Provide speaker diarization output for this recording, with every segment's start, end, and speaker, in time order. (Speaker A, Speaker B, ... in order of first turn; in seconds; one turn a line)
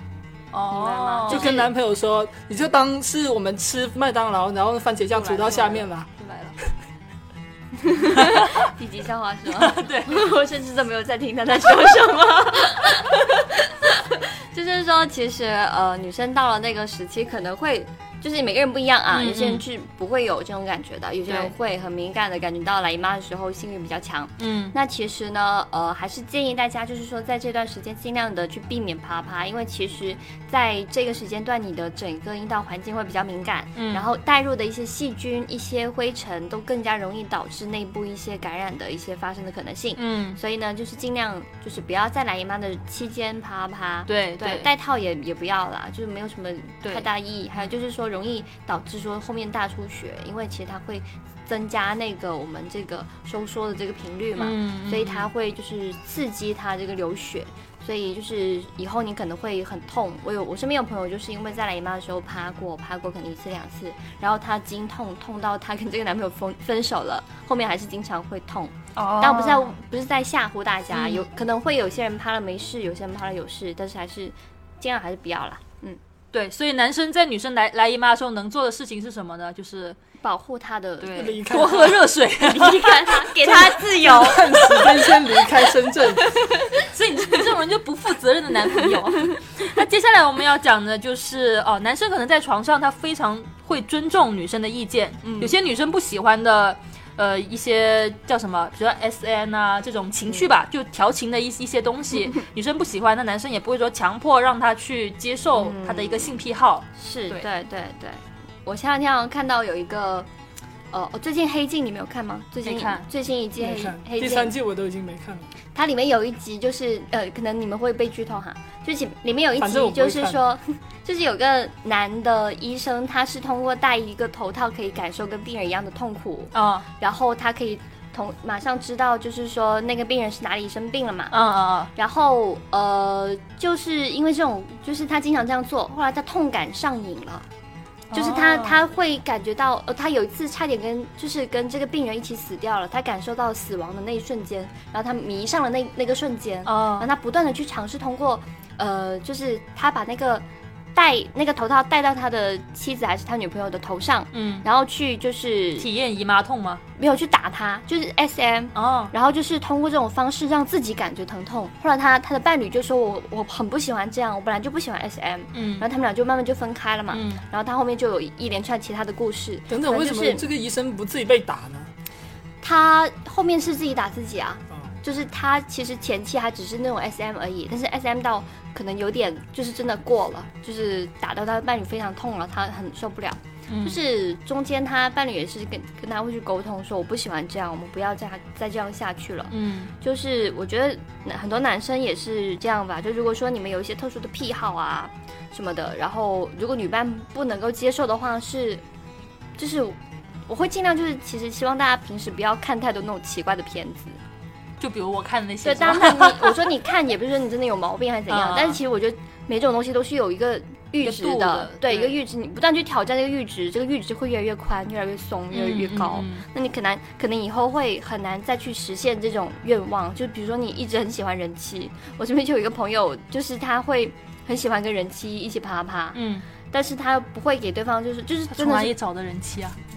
Speaker A: 0.5-1.6
Speaker B: 0.7-1.7
Speaker C: 1.3-6.1
Speaker B: 5.1-6.5
Speaker B: 7.8-76.0
Speaker A: 8.2-8.7
Speaker A: 9.5-10.2
Speaker A: 19.1-19.6
Speaker A: 21.3-21.5
Speaker A: 24.4-24.7
Speaker A: 33.8-34.1
Speaker A: 40.0-40.4
Speaker A: 44.1-44.7
Speaker A: 54.4-55.3
Speaker A: 68.9-69.7
Speaker A: 70.9-71.2
Speaker A: 76.3-80.0
Speaker B: 80.2-81.8
Speaker A: 81.0-84.1
Speaker C: 81.1-82.0
Speaker B: 82.4-85.2
Speaker C: 83.9-86.3
Speaker B: 86.2-87.4
Speaker A: 86.8-107.4
Speaker B: 88.8-89.4
Speaker B: 95.2-95.5
Speaker B: 105.5-106.4
Speaker B: 107.0-110.3
Speaker B: 110.9-114.5
Speaker A: 112.6-113.0
Speaker C: 113.6-115.5
Speaker B: 115.7-131.4
Speaker C: 119.6-120.4
Speaker A: 126.5-126.8
Speaker A: 131.3-131.9
Speaker B: 131.9-137.4
Speaker A: 138.1-138.8
Speaker B: 138.1-155.9
Speaker A: 146.7-147.1
Speaker A: 154.3-154.6
Speaker A: 155.8-156.8
Speaker B: 157.0-170.4
Speaker A: 158.7-159.1
Speaker A: 165.5-165.8
Speaker A: 167.1-167.4
Speaker C: 169.7-171.9
Speaker B: 172.6-198.8
Speaker A: 183.7-184.0
Speaker A: 189.5-189.9
Speaker B: 199.6-200.0
Speaker B: 200.5-204.2
Speaker A: 204.8-206.6
Speaker B: 205.6-228.9
Speaker A: 208.3-208.8
Speaker A: 211.0-212.2
Speaker A: 215.5-216.4
Speaker A: 226.1-226.4
Speaker A: 228.5-229.8